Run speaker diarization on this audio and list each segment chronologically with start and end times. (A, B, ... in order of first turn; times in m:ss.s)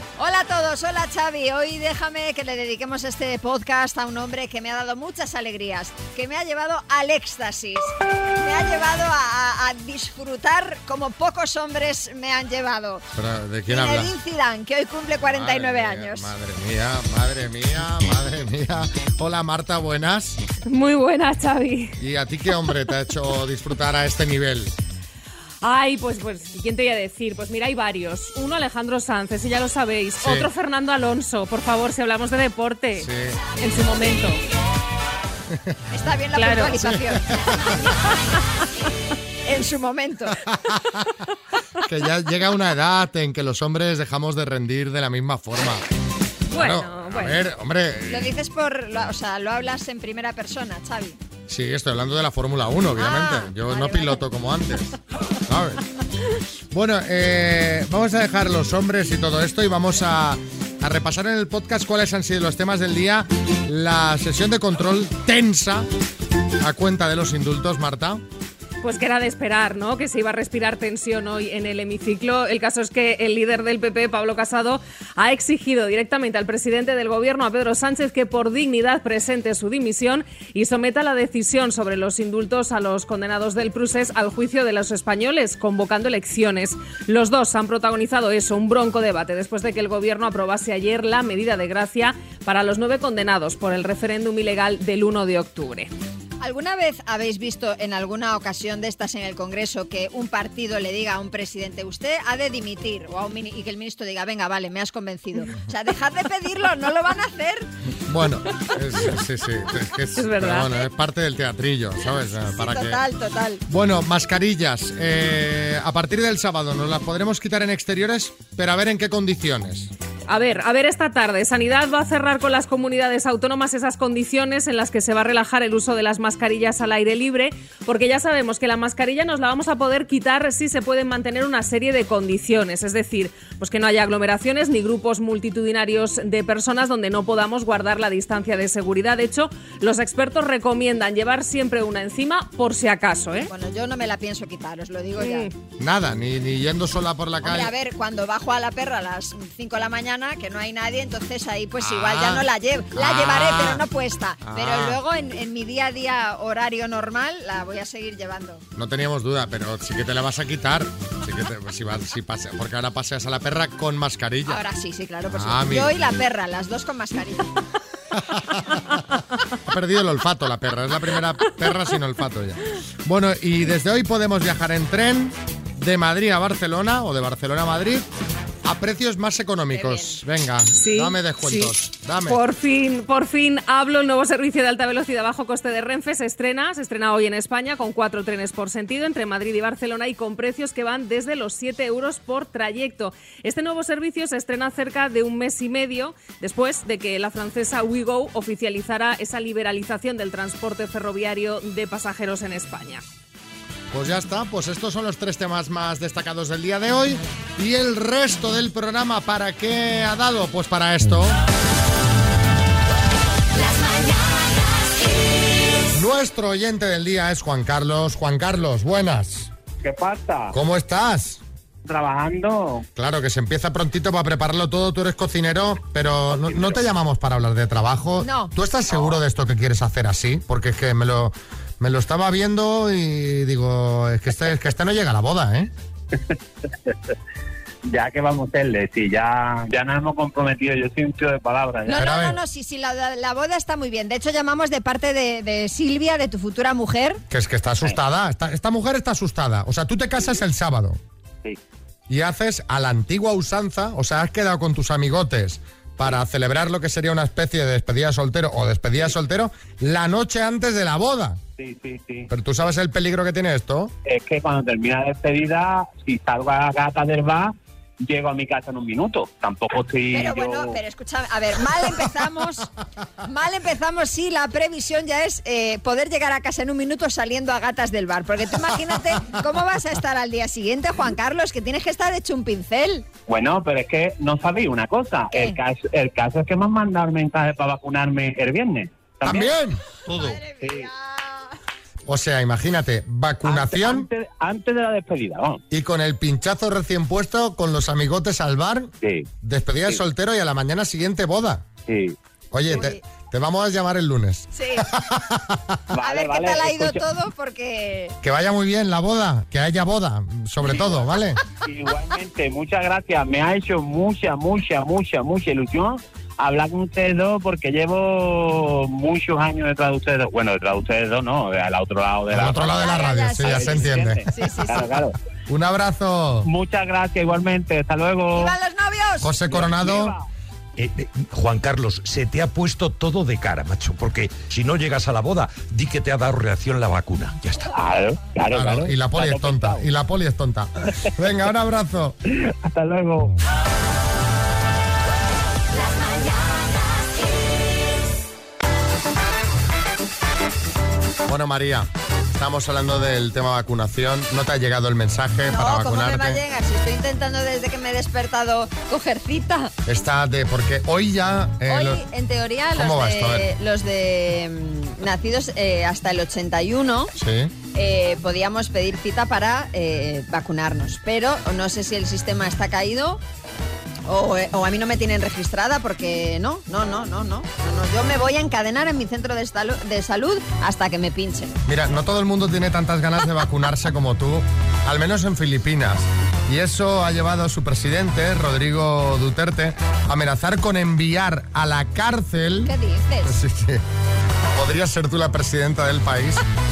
0:00.2-0:13.0 A
0:13.1-0:14.1 B
0:13.7-0:16.3 A
0:15.3-0:20.4 B
0:20.7-0:22.0 C
0:22.0-0:24.7 B
0:25.6-0:34.4 C
0:30.2-0:30.5 B
0:33.0-0:33.4 B
0:35.5-0:35.7 B
0:35.9-0:37.2 A
0:36.4-0:36.8 C
0:36.7-0:37.8 B
0:39.4-0:40.4 A
0:40.5-0:41.0 B
0:41.8-0:45.8 B
0:46.5-0:47.4 C
0:46.5-0:48.3 B
0:48.1-0:51.2 A
0:51.5-0:54.9 B
0:53.0-0:54.2 A
0:55.5-0:55.8 B
0:56.7-1:05.9 B
1:06.6-1:08.2 B
1:08.8-1:35.9 C
1:36.4-1:47.7 A
1:48.1-1:53.0 B
1:50.2-1:50.7 C
1:52.5-1:53.6 A
1:53.7-1:59.9 B
2:00.3-2:23.5 C
2:23.5-2:25.5 A
2:25.2-2:25.5 C
2:25.8-2:27.7 B
2:27.4-2:38.6 A
2:31.8-2:33.8 B
2:34.4-2:35.0 B
2:38.7-2:44.6 B
2:44.5-2:47.5 A
2:45.3-2:45.9 B
2:48.2-2:48.8 B
2:49.6-2:58.1 B
2:58.6-3:02.4 B
2:59.7-3:00.2 A
3:00.8-3:01.7 C
3:02.2-3:23.0 C
3:23.9-3:31.4 B
3:35.9-3:39.5 B
3:39.8-3:40.5 D
3:40.5-3:41.4 B
3:41.8-3:42.8 D
3:43.0-3:55.7 B
3:46.3-3:46.8 D
3:48.2-3:48.5 A
3:57.8-4:02.1 D
4:01.8-4:07.2 A
4:01.9-4:02.4 B
4:07.3-4:11.0 B
4:12.1-4:21.4 B
4:21.6-4:22.3 D
4:22.3-4:23.9 B
4:24.0-4:30.8 D
4:30.1-4:32.7 A
4:33.2-4:43.0 A
4:43.3-4:49.6 D
4:45.3-4:45.6 A
4:49.2-4:49.8 B
4:50.1-4:51.5 A
4:50.1-4:50.9 D
4:52.1-4:54.1 B
4:53.4-4:55.6 D
4:55.7-5:01.6 B
4:59.0-4:59.3 D
5:01.9-5:02.1 D
5:02.5-5:05.8 B
5:02.7-5:03.0 A
5:04.5-5:04.9 A
5:05.9-5:07.1 D
5:06.0-5:08.1 A
5:08.2-5:11.4 B
5:11.6-5:25.1 D
5:22.3-5:24.8 B
5:22.6-5:24.9 A
5:25.5-5:26.5 B
5:26.4-5:28.5 D
5:28.3-5:29.3 A
5:29.2-5:30.1 B
5:29.5-5:30.2 D
5:30.8-5:37.4 E
5:37.7-5:39.8 D
5:38.5-5:42.2 B
5:42.5-5:43.4 D
5:51.3-5:56.4 B
5:55.5-5:59.7 A
5:59.8-6:02.0 B
6:01.7-6:07.1 A
6:02.7-6:03.5 B
6:07.2-6:07.5 B
6:07.7-6:13.2 A
6:14.1-6:21.6 A
6:21.6-6:32.7 B
6:32.6-6:33.3 A
6:33.2-6:33.8 B
6:34.5-6:36.4 B